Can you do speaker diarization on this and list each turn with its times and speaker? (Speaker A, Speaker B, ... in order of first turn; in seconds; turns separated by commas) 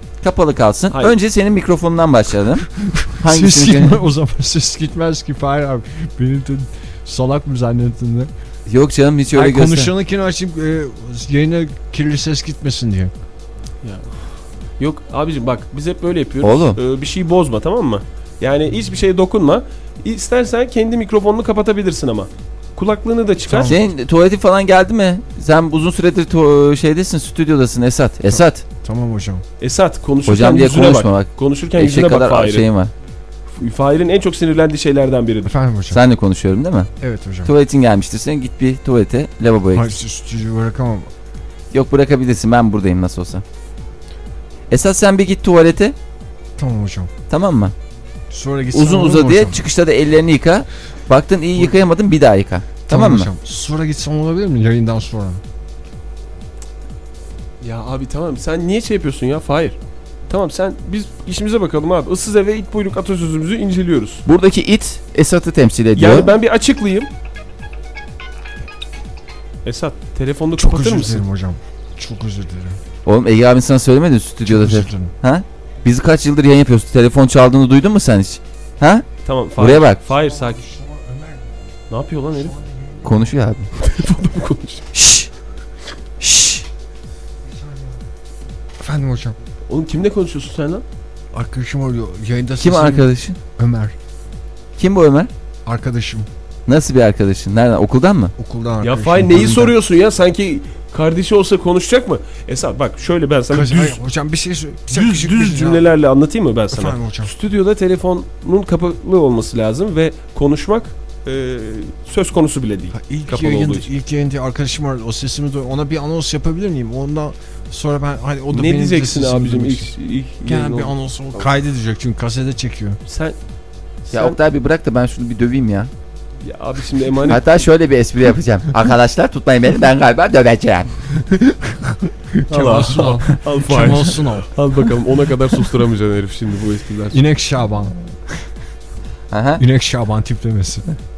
Speaker A: 0.2-2.7, Speaker A: 3.2-4.0, Speaker B: 3.3-8.3, Speaker A: 8.7-9.9, Speaker B: 9.4-13.1, Speaker C: 13.8-14.2, Speaker C: 14.8-23.8, Speaker A: 16.4-16.8, Speaker B: 23.5-23.8, Speaker A: 23.6-28.6, Speaker B: 28.8-29.4, Speaker C: 29.6-32.7, Speaker A: 30.2-32.9, Speaker C: 33.5-35.5, Speaker B: 35.5-36.0, Speaker A: 35.9-36.9, Speaker B: 37.0-37.5, Speaker A: 37.4-39.9, Speaker B: 39.7-41.1, Speaker A: 41.7-43.4, Speaker A: 44.7-45.9, Speaker B: 46.6-47.1, Speaker A: 47.3-47.7, Speaker B: 48.3-49.6, Speaker A: 48.7-53.3, Speaker B: 52.9-55.4, Speaker C: 57.6-59.8, Speaker C: 60.3-64.2, Speaker A: 64.2-66.3, Speaker C: 65.9-67.1, Speaker C: 69.6-71.2, Speaker B: 70.6-72.8, Speaker A: 73.0-80.0, Speaker B: 74.5-75.1, Speaker C: 79.2-80.6, Speaker B: 80.2-81.4, Speaker C: 81.9-82.5, Speaker B: 82.5-83.0, Speaker A: 83.0-83.7, Speaker C: 83.8-84.8, Speaker A: 84.9-85.3, Speaker A: 86.2-86.6, Speaker B: 87.6-88.0, Speaker B: 88.8-89.3, Speaker C: 89.7-90.8, Speaker B: 91.3-93.0, Speaker A: 92.6-93.4, Speaker B: 93.6-93.9, Speaker A: 94.8-95.3, Speaker B: 95.7-96.3, Speaker A: 96.7-98.3, Speaker B: 98.4-99.7, Speaker C: 98.8-104.0, Speaker B: 103.5-105.8, Speaker C: 104.9-113.9, Speaker B: 106.8-107.3, Speaker B: 113.0-119.8, Speaker C: 118.5-121.4, Speaker B: 120.5-123.0, Speaker C: 123.0-123.4, Speaker C: 124.0-124.4, Speaker A: 124.1-125.9, Speaker C: 126.4-127.4, Speaker A: 127.3-130.9, Speaker C: 132.5-137.2, Speaker B: 132.5-134.4, Speaker B: 137.2-137.9, Speaker A: 139.3-139.6, Speaker B: 139.6-140.8